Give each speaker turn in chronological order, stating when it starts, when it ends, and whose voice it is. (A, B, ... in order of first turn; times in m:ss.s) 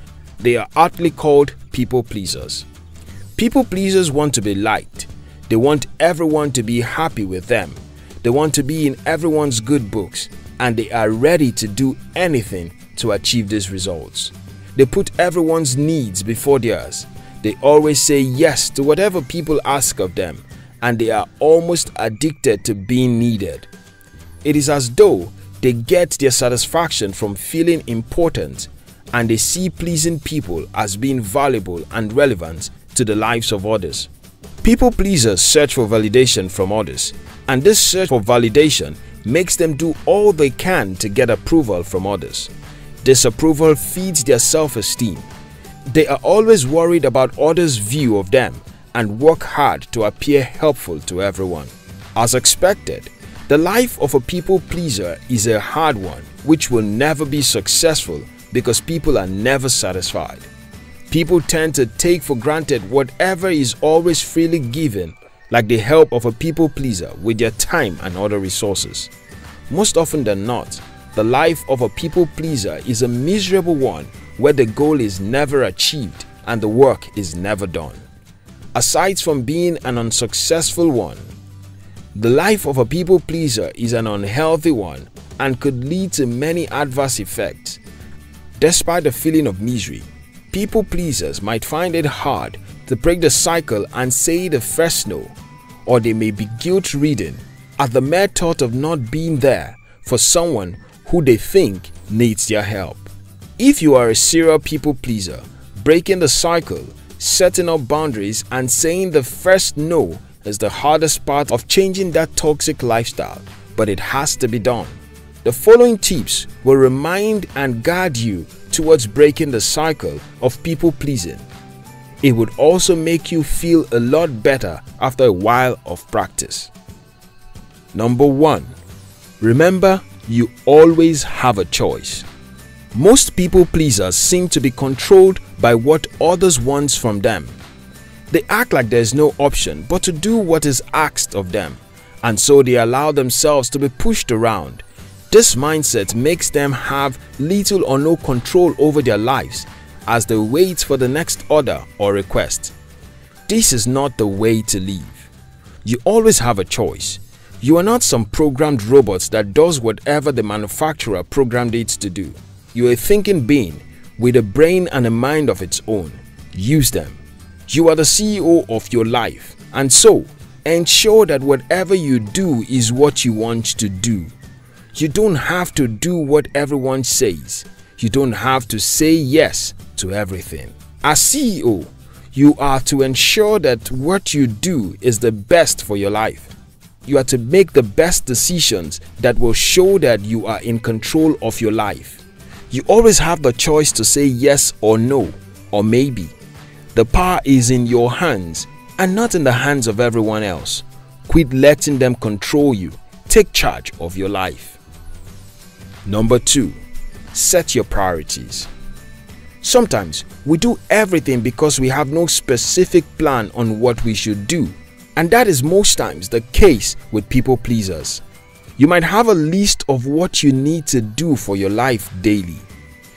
0:00.4-0:02.7 A
0:03.4-0:23.7 A
0:24.4-0:34.1 A
0:34.6-0:42.5 A
0:43.0-0:45.3 A
0:45.9-1:00.5 A
1:01.1-1:09.1 A
1:09.7-1:18.0 A
1:18.8-1:21.3 A
1:22.2-1:27.8 A
1:28.6-1:35.4 A
1:35.9-2:01.5 A
2:02.2-2:06.7 A
2:07.9-2:08.8 A
2:09.4-2:12.3 A
2:12.9-2:17.6 A
2:18.3-2:32.7 A
2:33.5-2:35.3 A
2:35.8-2:54.3 A
2:55.0-3:06.5 A
3:07.0-3:16.3 A
3:16.9-3:24.8 A
3:26.1-3:26.8 A
3:27.3-3:28.7 A
3:29.6-3:38.2 A
3:38.8-3:42.7 A